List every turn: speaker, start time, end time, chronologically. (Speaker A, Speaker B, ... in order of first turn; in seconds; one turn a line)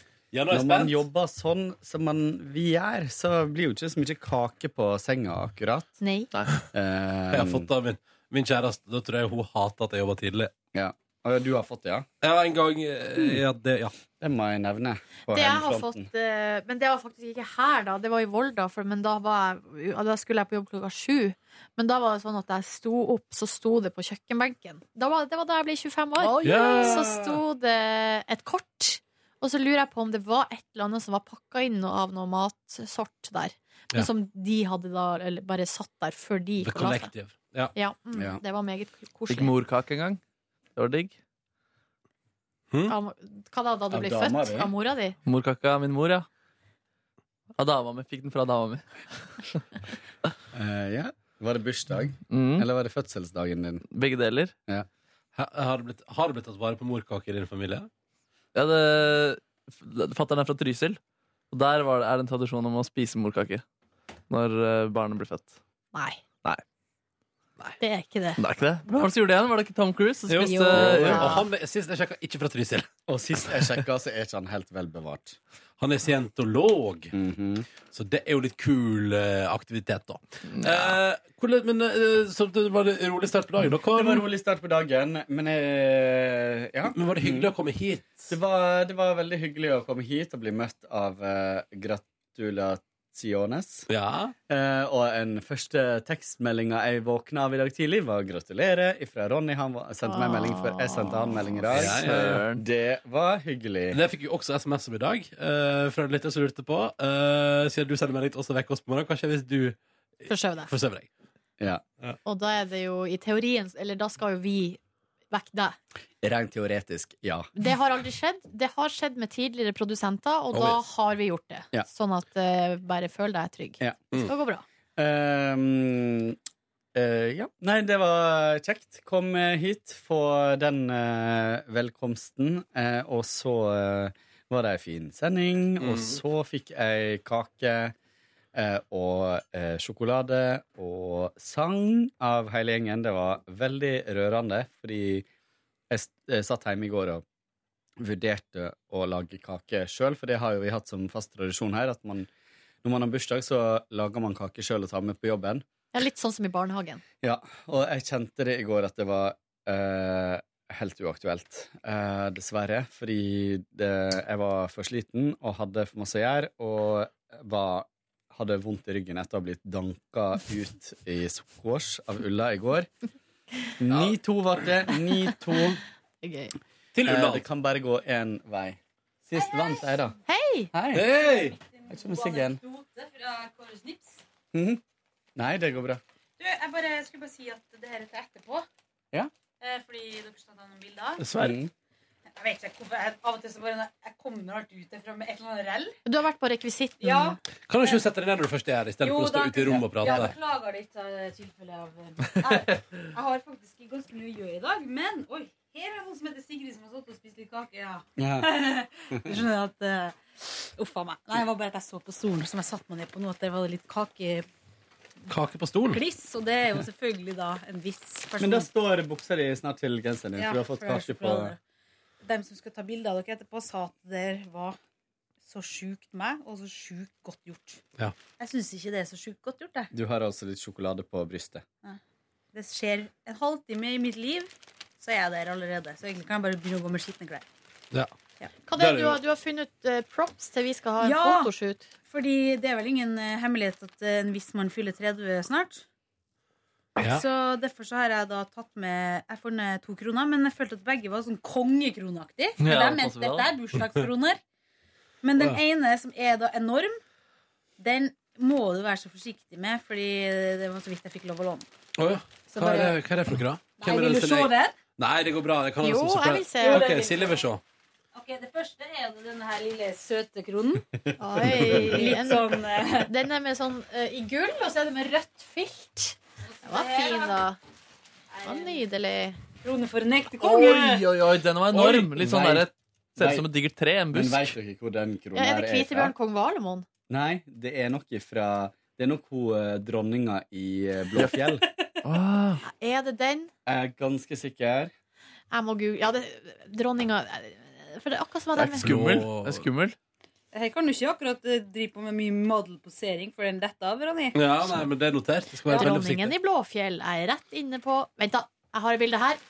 Speaker A: 0.3-1.0
Speaker B: 0.5-6.0
Speaker C: 6.0-6.3
Speaker B: 6.7-7.7
Speaker A: 7.3-10.5
Speaker B: 10.7-12.1
Speaker A: 12.2-13.9
Speaker B: 14.2-16.1
Speaker C: 15.3-37.1
Speaker D: 26.3-26.7
Speaker A: 26.4-27.4
Speaker A: 36.6-37.7
Speaker C: 37.8-39.5
Speaker B: 38.1-38.4
Speaker D: 39.3-40.2
Speaker D: 40.8-41.1
Speaker C: 42.9-45.2
Speaker B: 43.9-44.7
Speaker D: 45.2-46.3
Speaker D: 47.6-49.6
Speaker B: 50.5-53.8
Speaker D: 52.3-52.7
Speaker D: 53.9-54.5
Speaker A: 55.4-57.9
Speaker D: 58.5-61.0
Speaker D: 61.5-63.6
Speaker D: 64.3-65.6
Speaker C: 65.9-66.2
Speaker C: 67.8-68.4
Speaker D: 68.4-71.4
Speaker A: 70.3-72.9
Speaker C: 70.4-71.5
Speaker B: 73.1-75.4
Speaker A: 75.8-77.1
Speaker B: 77.1-77.7
Speaker A: 77.9-84.2
Speaker D: 80.5-81.0
Speaker B: 83.9-87.5
Speaker A: 86.9-88.3
Speaker B: 88.3-93.9
Speaker A: 93.9-94.3
Speaker B: 94.5-104.0
Speaker C: 100.0-101.2
Speaker D: 101.7-102.6
Speaker A: 101.7-102.4
Speaker A: 103.9-109.8
Speaker C: 110.3-110.7
Speaker A: 110.6-111.1
Speaker C: 112.2-114.8
Speaker C: 115.3-115.8
Speaker B: 116.2-117.5
Speaker C: 117.6-124.6
Speaker A: 120.5-120.8
Speaker B: 125.0-126.4
Speaker B: 127.0-137.9
Speaker A: 135.8-136.2
Speaker B: 138.6-145.3
Speaker B: 145.9-147.2
Speaker B: 148.0-152.3
Speaker B: 152.8-155.6
Speaker C: 155.9-157.0
Speaker B: 157.2-172.9
Speaker B: 173.8-175.8
Speaker C: 176.2-176.5
Speaker A: 176.9-177.4
Speaker B: 177.1-180.2
Speaker E: 179.3-180.1
Speaker C: 180.3-180.7
Speaker B: 180.7-181.1
Speaker A: 180.9-181.6
Speaker E: 181.1-184.2
Speaker B: 181.9-182.6
Speaker B: 184.5-184.8
Speaker B: 185.4-186.0
Speaker E: 186.4-188.7
Speaker E: 189.6-191.3
Speaker A: 191.2-191.6
Speaker B: 191.4-191.7
Speaker E: 192.4-196.0
Speaker C: 196.1-197.4
Speaker E: 197.0-198.1
Speaker A: 197.7-200.3
Speaker E: 199.0-214.4
Speaker B: 199.7-200.3
Speaker B: 208.2-208.5
Speaker A: 215.3-216.0
Speaker E: 215.9-218.7
Speaker B: 218.4-221.6
Speaker E: 220.3-221.6
Speaker E: 222.2-224.8
Speaker E: 225.4-227.8
Speaker E: 228.4-229.9
Speaker B: 229.9-231.6
Speaker E: 232.5-237.5
Speaker C: 238.7-241.9
Speaker A: 238.8-239.2
Speaker E: 241.0-241.5
Speaker E: 242.1-245.8
Speaker A: 247.0-247.2
Speaker E: 247.0-254.4
Speaker D: 252.6-253.5
Speaker E: 255.2-257.0
Speaker E: 257.8-261.7
Speaker A: 262.0-267.6
Speaker E: 262.6-262.9
Speaker E: 263.8-264.8
Speaker C: 265.8-266.9
Speaker E: 266.6-267.5
Speaker E: 268.1-270.8
Speaker C: 271.2-277.6
Speaker E: 271.8-273.1
Speaker E: 276.5-277.4
Speaker E: 278.3-278.8
Speaker C: 278.4-279.4
Speaker E: 279.6-281.0
Speaker D: 280.5-284.5
Speaker A: 281.7-282.6
Speaker B: 282.3-282.6
Speaker B: 283.2-283.5
Speaker B: 284.1-286.1
Speaker C: 285.4-286.9
Speaker B: 287.1-291.6
Speaker E: 291.5-291.9
Speaker D: 292.0-292.6
Speaker C: 292.6-293.5
Speaker B: 293.7-294.9
Speaker C: 295.5-298.9
Speaker A: 298.6-299.7
Speaker D: 298.8-300.0
Speaker E: 300.5-304.4
Speaker A: 304.3-306.3
Speaker E: 305.7-305.9
Speaker C: 305.7-309.4